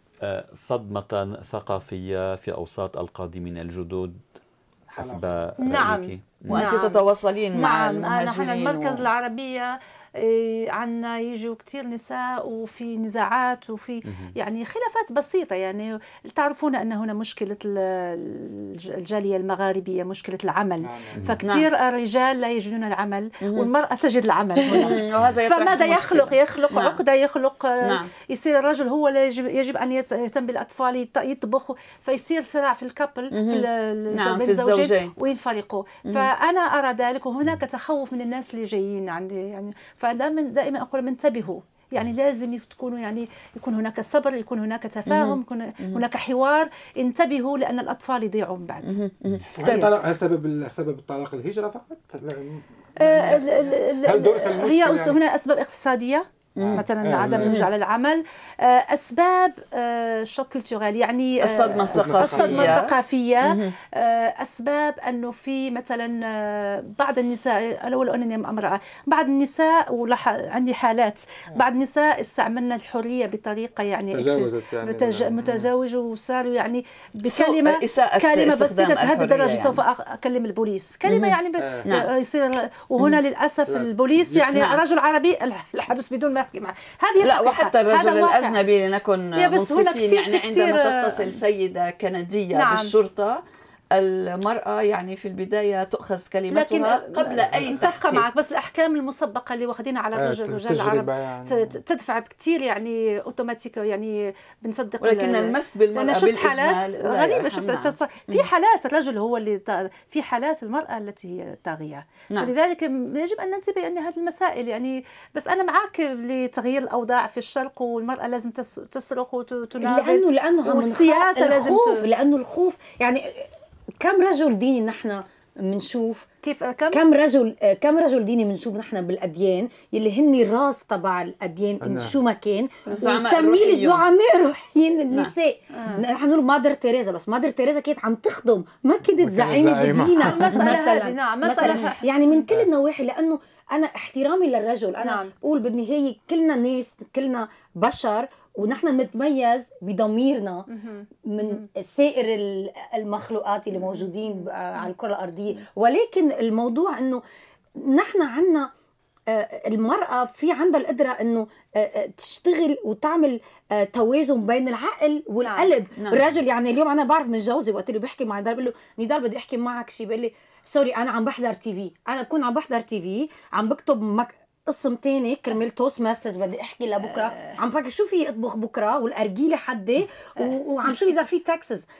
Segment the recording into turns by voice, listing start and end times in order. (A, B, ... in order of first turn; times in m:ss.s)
0:00.2-0:04.2 A
0:04.9-0:06.8 A
0:05.0-0:05.2 B
0:05.6-0:49.0 C
0:06.5-0:09.0 D
0:14.0-0:14.3 A
0:20.8-0:21.4 B
0:23.4-0:23.7 D
0:24.7-0:27.0 D
0:27.8-0:28.1 D
0:33.3-0:35.1 D
0:36.0-0:36.3 D
0:45.1-0:46.0 D
0:48.8-0:50.0 D
0:49.5-0:55.2 B
0:49.6-0:50.0 C
0:53.0-1:28.6 C
0:56.6-0:57.7 D
0:56.6-0:57.7 B
1:01.4-1:02.9 D
1:01.8-1:02.9 B
1:03.4-1:03.7 D
1:14.1-1:15.7 B
1:17.2-1:19.8 D
1:21.1-1:22.1 D
1:21.6-1:21.9 B
1:23.7-1:24.7 B
1:24.5-1:24.8 D
1:27.2-1:33.4 D
1:29.4-1:31.4 C
1:32.5-1:32.9 C
1:33.9-1:38.2 D
1:36.5-2:02.0 C
1:37.4-1:38.1 B
1:40.2-1:41.8 B
1:45.0-1:48.5 D
1:59.8-2:06.3 E
2:06.4-2:07.0 C
2:06.9-2:30.7 E
2:11.8-2:12.2 B
2:12.9-2:14.0 D
2:15.7-2:16.0 C
2:19.2-2:20.6 B
2:20.2-2:22.0 C
2:25.0-2:25.3 C
2:30.7-2:31.6 C
2:31.2-2:37.2 E
2:37.8-2:38.7 E
2:39.3-3:01.8 E
2:45.4-2:45.7 C
2:46.0-2:46.2 D
2:57.1-2:57.5 C